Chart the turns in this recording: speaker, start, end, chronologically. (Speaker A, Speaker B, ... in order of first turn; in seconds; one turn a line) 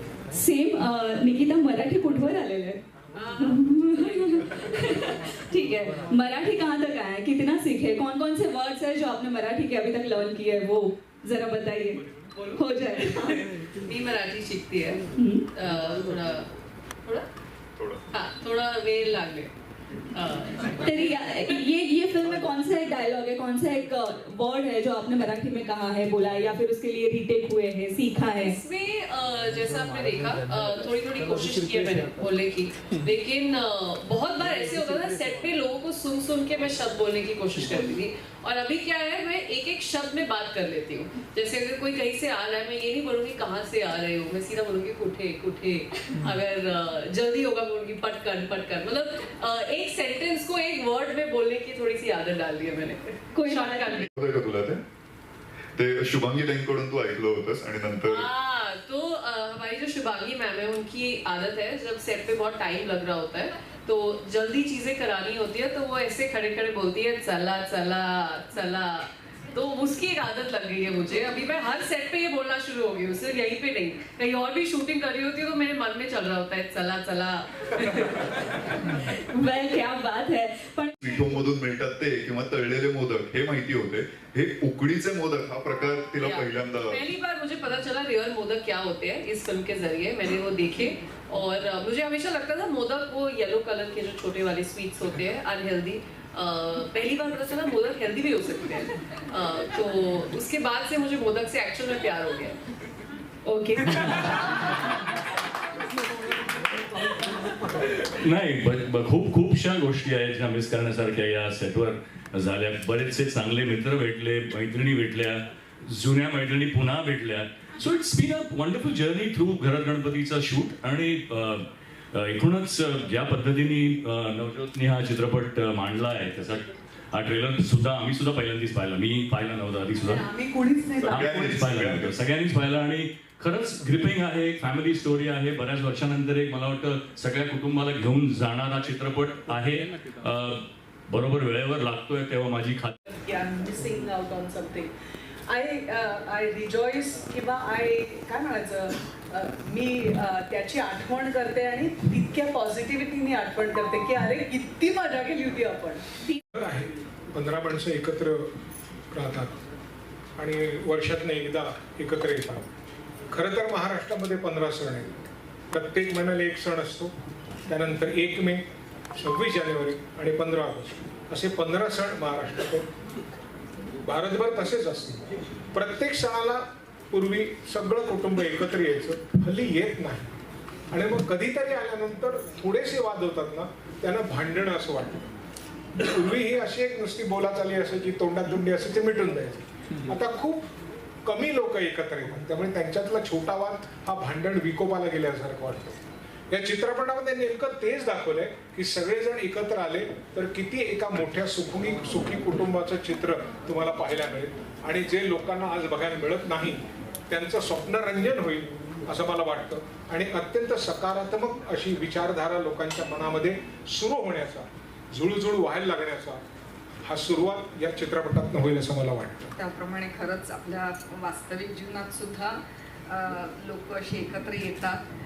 Speaker A: 0.3-2.8
Speaker A: 3.4-12.0
Speaker A: 12.6-13.4
Speaker B: 13.8-15.0
Speaker A: 15.2-15.4
Speaker B: 15.5-16.5
Speaker B: 18.1-19.5
Speaker B: 20.1-20.7
Speaker A: 20.8-28.6
Speaker B: 28.4-54.1
Speaker A: 53.3-54.1
Speaker C: 54.1-54.8
Speaker C: 55.8-58.3
Speaker B: 58.0-78.4
Speaker A: 79.3-80.9
Speaker C: 81.0-87.0
Speaker B: 86.2-102.6
Speaker D: 103.5-104.1
Speaker E: 108.0-130.3
Speaker D: 130.1-131.2
Speaker C: 131.0-132.2
Speaker E: 131.0-142.9
Speaker D: 143.1-144.9
Speaker D: 145.5-156.0
Speaker F: 156.5-158.5
Speaker F: 159.1-159.5
Speaker F: 160.4-162.7
Speaker F: 163.3-165.2
Speaker F: 165.7-167.1
Speaker F: 167.7-168.6
Speaker F: 169.2-172.9
Speaker F: 174.0-180.3
Speaker F: 180.9-185.3
Speaker F: 186.0-190.7
Speaker F: 191.2-216.4
Speaker F: 217.0-219.5
Speaker G: 219.6-225.0